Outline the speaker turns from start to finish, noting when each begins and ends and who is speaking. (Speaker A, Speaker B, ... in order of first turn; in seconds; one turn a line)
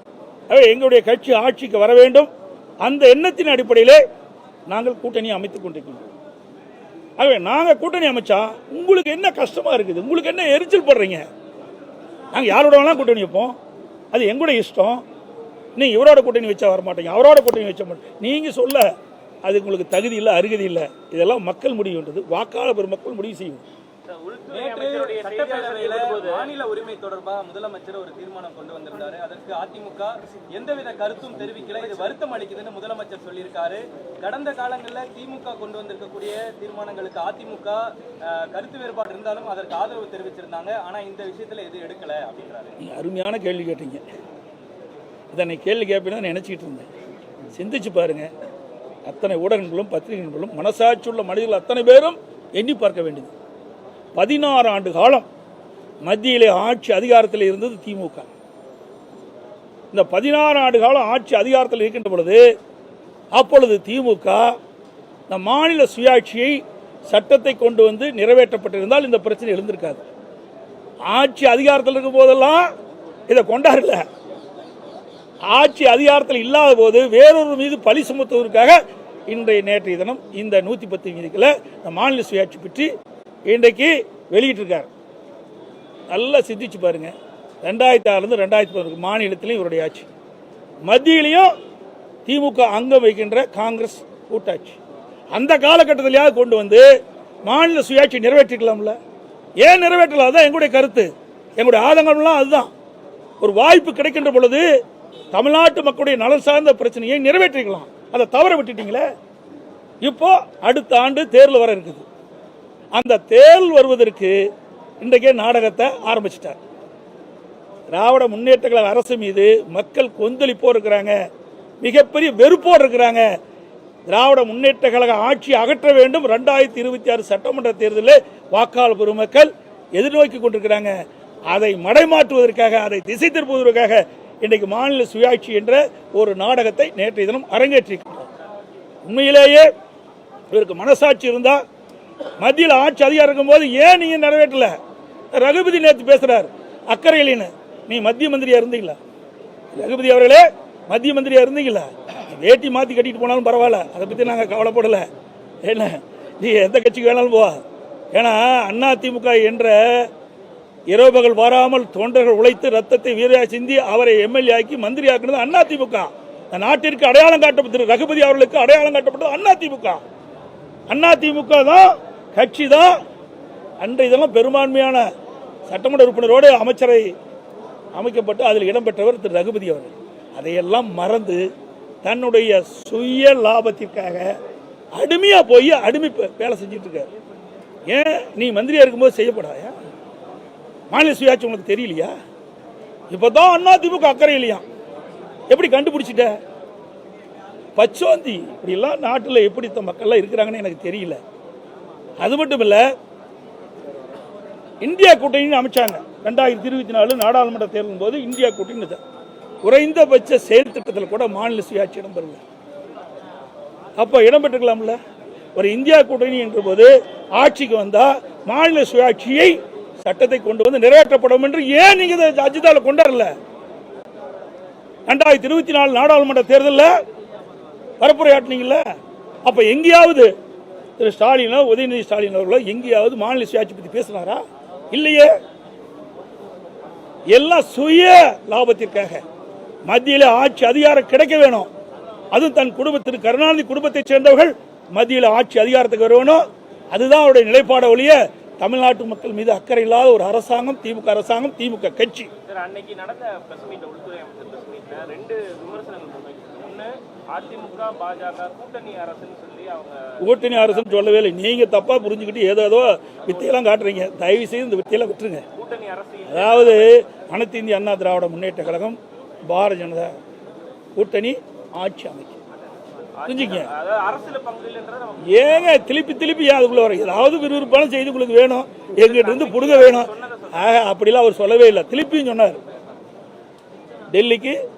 Speaker A: 0.5-2.3
Speaker A: 2.8-4.0
Speaker A: 4.7-6.1
Speaker A: 7.2-11.2
Speaker A: 12.3-13.6
Speaker A: 14.1-15.0
Speaker A: 15.8-18.9
Speaker A: 19.4-23.6
Speaker B: 24.1-26.5
Speaker C: 24.5-42.8
Speaker A: 42.8-44.0
Speaker A: 45.3-46.9
Speaker A: 47.5-48.3
Speaker A: 49.0-53.3
Speaker A: 54.1-55.2
Speaker A: 56.0-58.3
Speaker A: 59.9-62.4
Speaker A: 63.3-64.5
Speaker A: 65.3-66.6
Speaker A: 67.1-70.0
Speaker A: 71.1-72.7
Speaker A: 73.3-74.0
Speaker A: 75.5-82.9
Speaker A: 83.5-84.9
Speaker A: 86.1-90.1
Speaker A: 90.8-91.5
Speaker A: 92.2-94.8
Speaker A: 95.3-96.8
Speaker A: 97.4-99.0
Speaker A: 99.6-102.7
Speaker A: 103.4-104.6
Speaker A: 105.3-109.0
Speaker A: 110.0-112.0
Speaker A: 112.9-114.3
Speaker A: 115.0-116.6
Speaker A: 117.9-121.1
Speaker A: 121.8-123.2
Speaker A: 124.1-130.9
Speaker A: 131.5-138.3
Speaker A: 139.0-139.7
Speaker A: 140.5-141.6
Speaker A: 142.4-144.7
Speaker A: 145.3-149.0
Speaker A: 149.7-155.1
Speaker A: 155.6-157.6
Speaker A: 158.1-160.1
Speaker A: 160.9-170.0
Speaker A: 170.9-172.9
Speaker A: 173.8-175.0
Speaker A: 175.7-177.1
Speaker A: 177.9-181.4
Speaker A: 182.0-184.2
Speaker A: 184.9-187.1
Speaker A: 187.9-189.7
Speaker A: 190.9-192.1
Speaker A: 193.1-194.6
Speaker A: 195.5-196.3
Speaker A: 197.8-201.2
Speaker A: 202.2-202.8
Speaker A: 204.8-209.0
Speaker A: 209.6-212.4
Speaker A: 214.0-215.0
Speaker A: 215.5-223.3
Speaker A: 225.1-226.9
Speaker A: 228.0-228.8
Speaker A: 229.4-230.3
Speaker A: 231.0-235.3
Speaker A: 237.3-239.2
Speaker A: 239.8-241.7
Speaker A: 242.3-252.3
Speaker B: 252.4-261.1
Speaker A: 260.2-265.4
Speaker B: 265.5-266.9
Speaker A: 266.3-270.1
Speaker A: 270.9-272.4
Speaker B: 273.1-275.7
Speaker A: 273.2-273.7
Speaker A: 275.2-282.6
Speaker B: 278.9-280.6
Speaker A: 284.1-284.6